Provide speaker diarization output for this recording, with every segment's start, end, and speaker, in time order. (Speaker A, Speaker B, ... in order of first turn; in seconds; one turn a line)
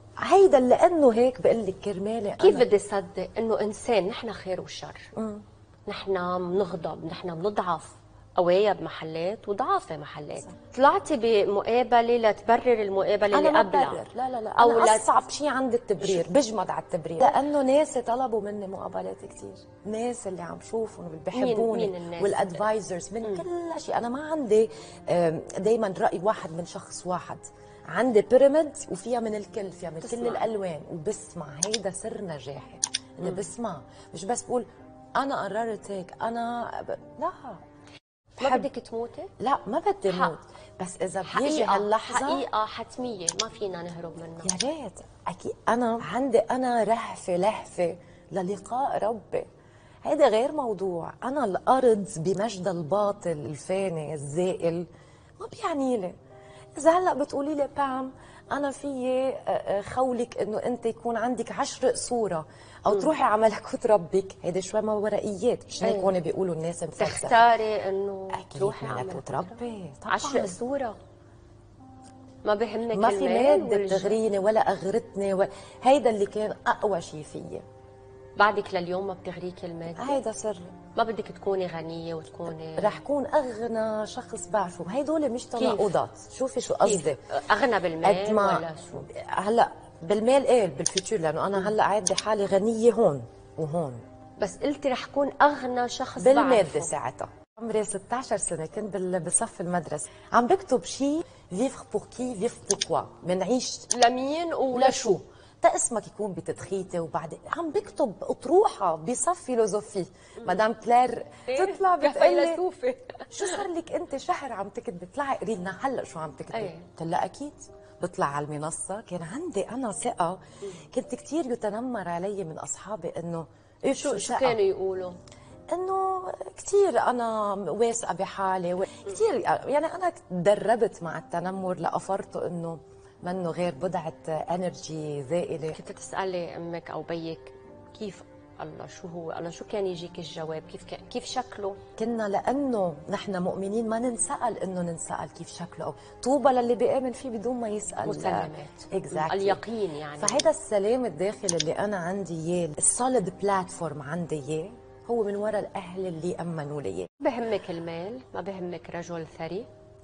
Speaker A: 0.2-2.6
Speaker B: 2.4-5.1
Speaker A: 5.1-5.4
Speaker B: 5.9-14.1
Speaker A: 13.3-37.6
Speaker B: 14.6-15.1
Speaker B: 21.3-22.6
Speaker B: 30.0-30.4
Speaker B: 38.4-39.3
Speaker A: 38.4-38.6
Speaker A: 39.4-42.5
Speaker B: 40.1-40.3
Speaker B: 41.2-44.5
Speaker A: 44.4-49.5
Speaker A: 50.0-54.9
Speaker A: 55.4-56.1
Speaker A: 56.8-67.4
Speaker B: 65.8-66.1
Speaker B: 67.0-69.6
Speaker A: 68.3-70.5
Speaker B: 70.1-71.0
Speaker B: 72.4-74.2
Speaker A: 72.9-77.6
Speaker B: 78.4-80.2
Speaker A: 79.9-80.8
Speaker B: 80.9-83.0
Speaker A: 82.6-87.2
Speaker B: 85.6-85.9
Speaker B: 86.8-89.1
Speaker A: 88.0-94.0
Speaker B: 94.4-96.9
Speaker A: 96.2-103.9
Speaker B: 103.9-105.2
Speaker A: 104.7-112.6
Speaker B: 111.5-113.6
Speaker A: 113.3-124.6
Speaker B: 116.5-116.8
Speaker B: 124.0-125.2
Speaker A: 125.7-135.8
Speaker B: 135.7-141.8
Speaker A: 141.9-149.6
Speaker B: 148.0-150.5
Speaker A: 150.2-157.1
Speaker B: 157.2-159.7